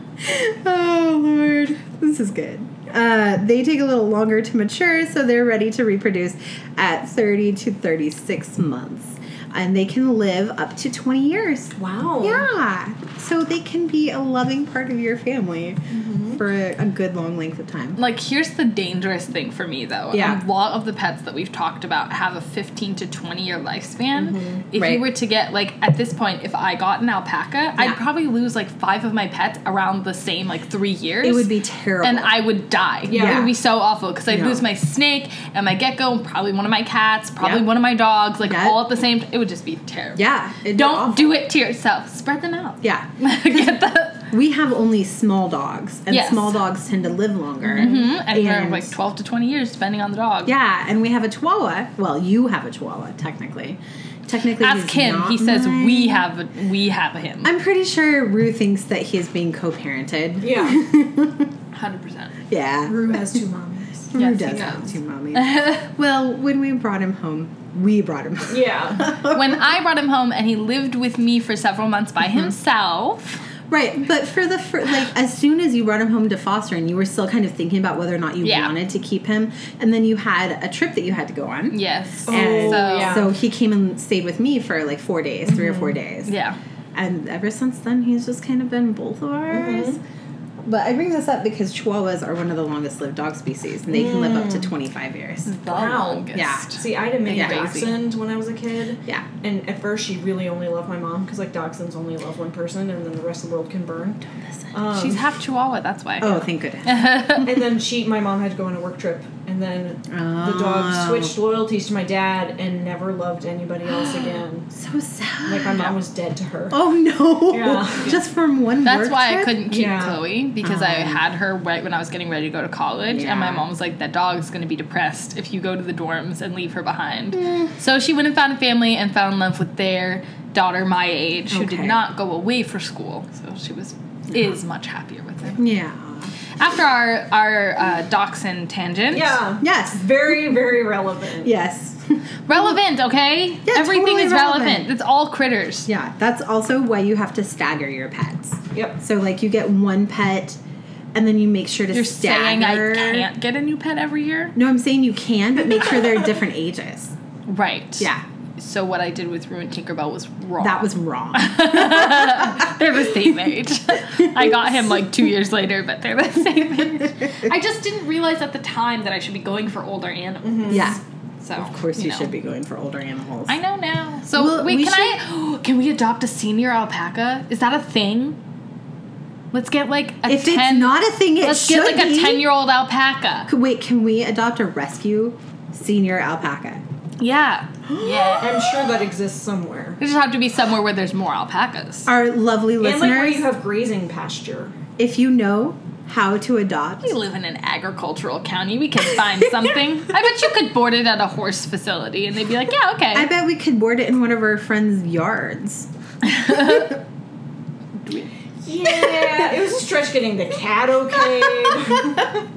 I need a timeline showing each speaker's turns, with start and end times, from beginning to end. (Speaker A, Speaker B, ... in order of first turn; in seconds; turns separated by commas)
Speaker A: 0.2-15.8, Speaker B: 11.8-12.4, Speaker B: 15.9-16.4, Speaker A: 16.3-18.0, Speaker C: 17.9-31.5, Speaker A: 20.1-20.4, Speaker B: 24.1-24.6, Speaker A: 24.7-25.0, Speaker A: 31.2-32.4, Speaker C: 32.0-44.2, Speaker B: 33.1-33.5, Speaker A: 33.1-33.5, Speaker A: 34.3-34.6, Speaker A: 37.4-37.7, Speaker A: 38.5-38.9, Speaker A: 40.1-41.4, Speaker A: 42.8-48.9, Speaker C: 46.1-46.5, Speaker C: 47.6-50.5, Speaker A: 50.5-56.2, Speaker C: 54.6-57.5, Speaker A: 57.4-61.5, Speaker B: 60.4-60.8, Speaker C: 61.7-62.4, Speaker A: 62.5-63.4, Speaker B: 62.9-64.9, Speaker A: 64.1-69.6, Speaker C: 64.1-64.8, Speaker C: 65.3-65.8, Speaker B: 68.5-69.1, Speaker C: 69.1-73.4, Speaker A: 73.7-86.3, Speaker C: 78.4-78.7, Speaker C: 81.7-83.2, Speaker B: 82.3-83.3, Speaker C: 86.2-86.6, Speaker A: 86.9-90.0, Speaker B: 89.5-90.0, Speaker A: 90.6-95.6, Speaker B: 93.9-94.7, Speaker C: 95.5-97.9, Speaker B: 95.7-104.2, Speaker A: 96.3-96.7, Speaker A: 97.2-97.9, Speaker A: 104.3-104.7, Speaker B: 104.7-105.2, Speaker C: 104.9-107.5, Speaker A: 106.2-107.2, Speaker B: 107.3-114.7, Speaker A: 110.1-111.3, Speaker A: 114.7-115.9, Speaker B: 115.5-116.8, Speaker A: 116.7-119.6, Speaker B: 117.5-118.2, Speaker C: 118.8-135.6, Speaker B: 119.7-120.2, Speaker A: 120.6-121.2, Speaker A: 123.1-123.6, Speaker A: 127.4-127.7, Speaker A: 131.5-132.0, Speaker A: 135.6-136.3, Speaker C: 136.6-139.4, Speaker B: 139.1-141.5, Speaker A: 139.6-140.0, Speaker A: 141.4-142.7, Speaker C: 142.5-145.9, Speaker A: 143.6-144.9, Speaker A: 145.9-150.6, Speaker A: 151.1-153.2, Speaker C: 151.9-154.5, Speaker A: 154.5-157.1, Speaker C: 157.5-172.3, Speaker A: 160.6-162.7, Speaker B: 170.4-171.0, Speaker A: 170.7-171.0, Speaker A: 171.6-173.6, Speaker C: 173.5-178.4, Speaker A: 174.3-175.2, Speaker C: 179.5-183.5, Speaker A: 180.2-182.5, Speaker A: 183.5-186.8, Speaker C: 187.2-188.7, Speaker A: 188.0-188.4, Speaker B: 188.4-190.0, Speaker C: 190.0-192.1, Speaker A: 192.1-193.5, Speaker B: 192.8-194.8, Speaker A: 195.0-197.1, Speaker C: 197.0-203.3, Speaker A: 203.1-205.9, Speaker C: 206.3-206.9, Speaker A: 206.5-206.8, Speaker B: 208.6-212.4